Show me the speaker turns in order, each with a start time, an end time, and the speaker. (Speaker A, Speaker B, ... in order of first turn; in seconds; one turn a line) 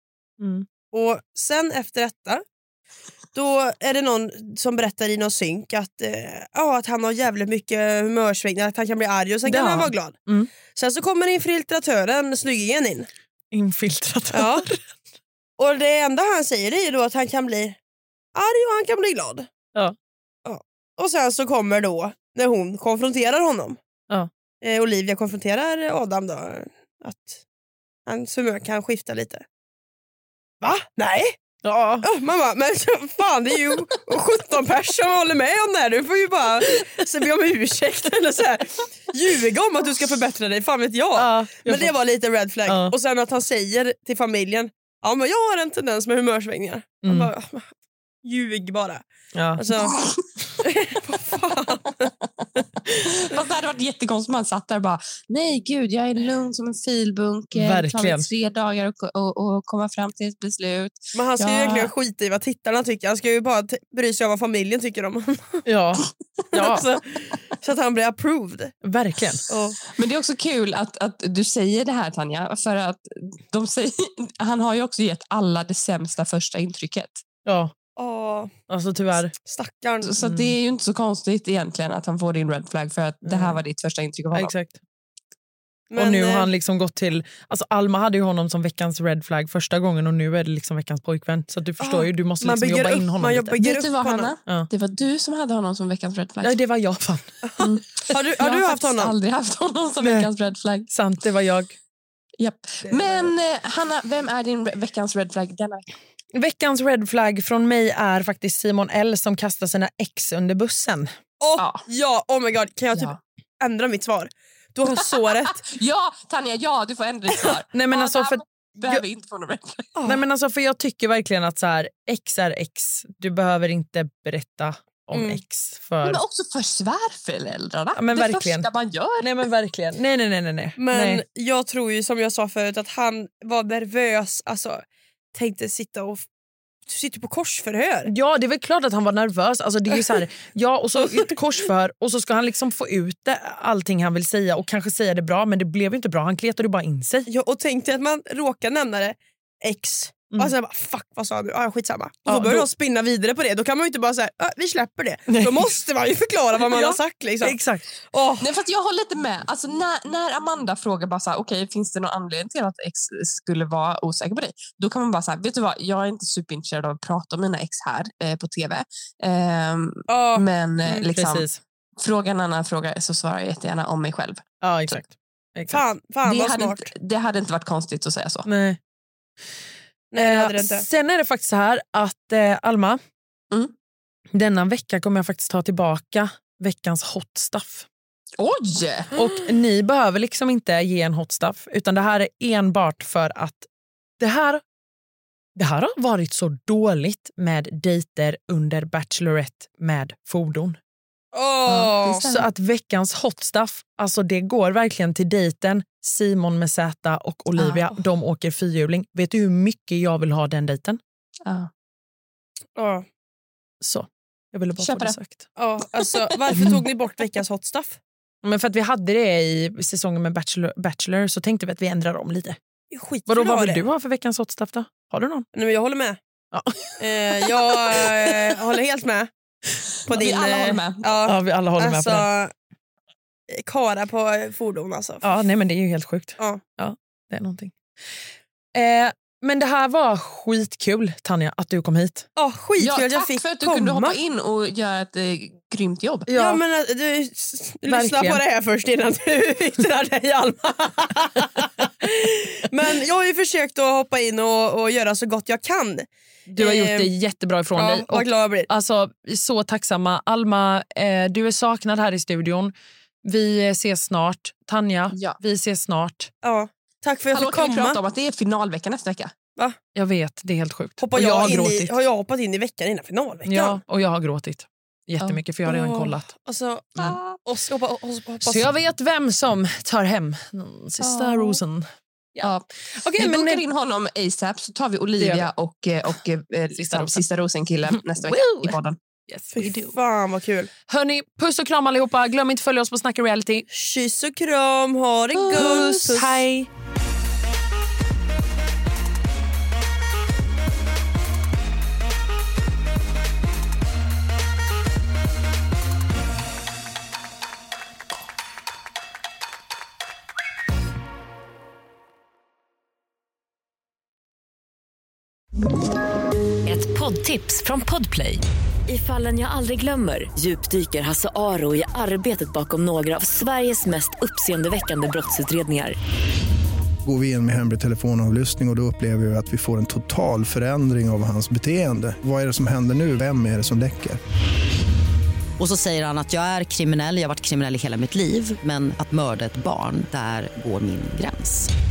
Speaker A: 0.4-0.7
Speaker B: 0.9-2.4
Speaker B: 3.3-10.2
Speaker A: 9.4-10.5
Speaker B: 10.7-13.1
Speaker A: 13.5-14.8
Speaker B: 14.3-14.7
Speaker B: 15.6-17.8
Speaker B: 18.3-19.5
Speaker B: 20.4-23.8
Speaker B: 24.6-27.4
Speaker B: 28.1-29.4
Speaker B: 30.6-31.4
Speaker A: 31.6-32.0
Speaker B: 32.0-49.0
Speaker A: 41.2-41.9
Speaker A: 42.7-42.9
Speaker A: 47.0-47.3
Speaker A: 49.3-49.6
Speaker B: 49.5-50.0
Speaker C: 49.9-50.2
Speaker B: 50.6-52.1
Speaker B: 52.9-53.4
Speaker C: 53.0-61.9
Speaker A: 57.5-58.3
Speaker B: 61.1-65.6
Speaker A: 65.7-66.8
Speaker B: 66.5-68.7
Speaker A: 68.8-69.4
Speaker B: 69.5-69.8
Speaker C: 69.9-77.2
Speaker A: 77.5-77.7
Speaker B: 78.0-78.5
Speaker A: 78.7-79.3
Speaker B: 79.4-80.1
Speaker C: 80.0-84.5
Speaker A: 80.2-80.5
Speaker A: 83.2-83.6
Speaker A: 84.3-84.8
Speaker B: 85.9-86.5
Speaker A: 86.0-93.5
Speaker B: 91.8-94.3
Speaker C: 93.6-96.5
Speaker A: 96.4-97.2
Speaker B: 97.4-99.1
Speaker C: 97.6-100.9
Speaker A: 100.0-100.3
Speaker A: 100.9-101.8
Speaker C: 102.4-105.8
Speaker A: 102.8-103.3
Speaker A: 106.3-111.1
Speaker B: 111.4-115.6
Speaker C: 111.6-111.8
Speaker C: 115.0-119.9
Speaker A: 117.7-119.0
Speaker B: 120.0-120.2
Speaker A: 120.0-126.2
Speaker B: 125.1-125.4
Speaker C: 126.0-129.4
Speaker A: 127.9-128.7
Speaker A: 129.2-131.2
Speaker B: 130.8-136.2
Speaker B: 136.8-138.1
Speaker A: 138.1-147.3
Speaker B: 147.3-158.5
Speaker A: 152.2-152.7
Speaker A: 155.3-155.7
Speaker A: 156.7-157.8
Speaker C: 158.4-171.5
Speaker B: 170.1-171.1
Speaker A: 171.1-171.6
Speaker C: 172.0-174.4
Speaker A: 174.6-175.8
Speaker B: 175.7-176.9
Speaker C: 176.2-178.5
Speaker A: 178.4-178.8
Speaker B: 180.1-180.9
Speaker A: 180.2-183.0
Speaker A: 184.3-187.9
Speaker C: 188.4-189.1
Speaker A: 189.1-193.7
Speaker A: 194.2-194.6
Speaker A: 195.6-200.8
Speaker B: 201.3-202.2
Speaker C: 201.7-202.4
Speaker A: 202.1-211.0
Speaker C: 207.6-207.8
Speaker B: 212.8-213.1
Speaker A: 213.8-215.5
Speaker C: 214.8-215.2
Speaker B: 215.6-218.0
Speaker A: 218.4-222.6
Speaker B: 222.9-223.8
Speaker A: 223.3-225.4
Speaker B: 225.5-226.2
Speaker A: 226.5-228.1
Speaker B: 227.0-229.3
Speaker B: 230.1-232.5
Speaker C: 230.1-231.2
Speaker A: 231.2-232.3
Speaker B: 233.5-235.3
Speaker A: 235.2-237.7
Speaker A: 238.7-242.3
Speaker B: 242.3-244.2
Speaker C: 242.8-246.3
Speaker A: 246.3-246.6
Speaker B: 246.3-257.1
Speaker A: 247.9-248.4
Speaker A: 256.5-266.3
Speaker B: 257.7-258.7
Speaker C: 265.1-265.4
Speaker B: 266.4-268.0
Speaker C: 267.3-269.3
Speaker A: 269.9-271.9
Speaker B: 271.0-273.8
Speaker A: 273.4-276.3
Speaker B: 275.6-278.7
Speaker C: 277.0-277.4
Speaker A: 278.4-283.6
Speaker C: 281.0-281.6
Speaker C: 282.4-282.7
Speaker C: 283.2-289.0
Speaker A: 285.2-285.5
Speaker A: 286.8-287.2
Speaker A: 287.9-288.8
Speaker A: 289.3-289.7
Speaker B: 289.5-290.7
Speaker A: 290.9-293.6
Speaker B: 293.7-296.4
Speaker A: 295.4-296.7
Speaker D: 316.6-325.9
Speaker E: 327.0-334.2
Speaker F: 335.6-341.7